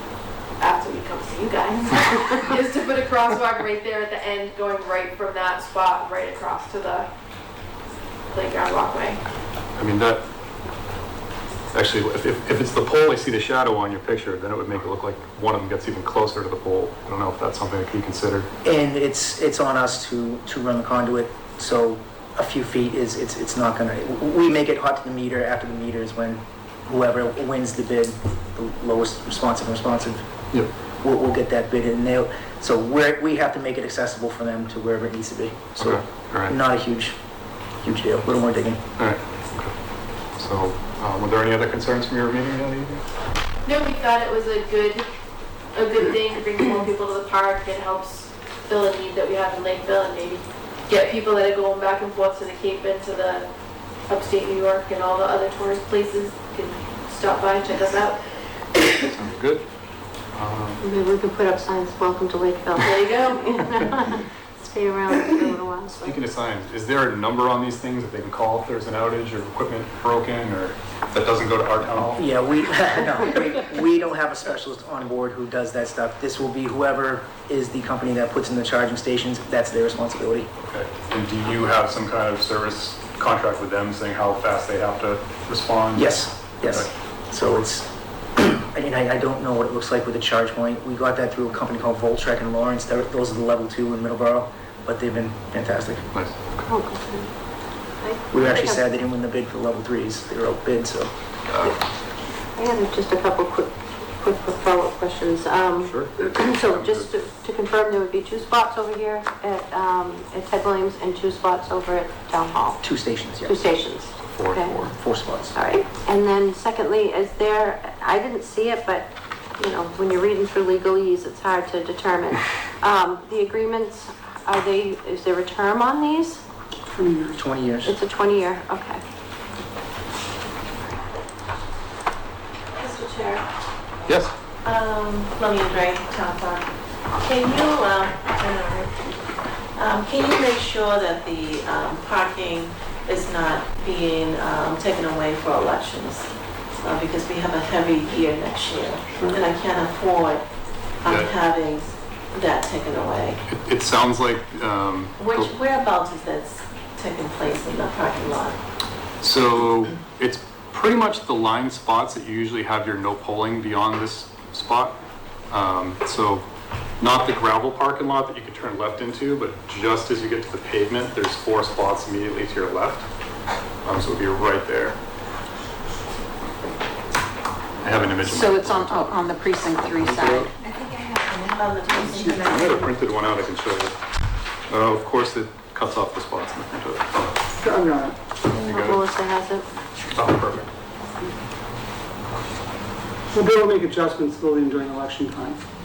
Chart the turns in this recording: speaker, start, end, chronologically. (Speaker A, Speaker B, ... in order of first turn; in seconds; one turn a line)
Speaker A: 0.6-7.1
Speaker A: 8.3-9.2
Speaker B: 9.7-10.3
Speaker B: 11.7-18.5
Speaker C: 18.6-30.3
Speaker C: 31.0-37.1
Speaker B: 35.8-36.5
Speaker C: 37.8-38.8
Speaker B: 39.0-39.7
Speaker B: 40.3-43.0
Speaker A: 43.6-45.0
Speaker A: 45.7-53.5
Speaker A: 54.1-58.2
Speaker B: 59.0-59.6
Speaker B: 60.3-60.8
Speaker D: 60.8-66.2
Speaker A: 62.8-63.9
Speaker B: 65.9-72.2
Speaker C: 72.0-80.5
Speaker B: 80.7-86.9
Speaker C: 85.9-96.1
Speaker B: 96.1-96.6
Speaker D: 96.6-97.3
Speaker D: 98.0-99.0
Speaker C: 98.3-101.1
Speaker B: 101.5-101.7
Speaker D: 102.5-114.9
Speaker B: 105.8-107.1
Speaker C: 112.8-113.6
Speaker B: 114.3-114.9
Speaker C: 114.9-115.5
Speaker D: 115.5-126.4
Speaker E: 126.9-127.4
Speaker C: 127.3-128.0
Speaker D: 127.8-129.0
Speaker F: 132.7-133.4
Speaker B: 134.1-134.3
Speaker F: 134.6-136.7
Speaker F: 137.2-139.2
Speaker F: 139.8-150.5
Speaker F: 151.0-153.4
Speaker B: 151.0-151.3
Speaker B: 153.5-155.5
Speaker F: 155.2-158.6
Speaker B: 159.2-166.5
Speaker B: 167.0-173.1
Speaker B: 173.8-175.0
Speaker B: 177.8-179.2
Speaker G: 178.2-180.5
Speaker B: 180.0-180.5
Speaker F: 180.8-182.7
Speaker B: 182.1-183.9
Speaker B: 184.7-187.1
Speaker E: 187.6-188.2
Speaker B: 188.5-189.0
Speaker D: 188.5-189.7
Speaker B: 190.1-190.7
Speaker E: 193.3-195.6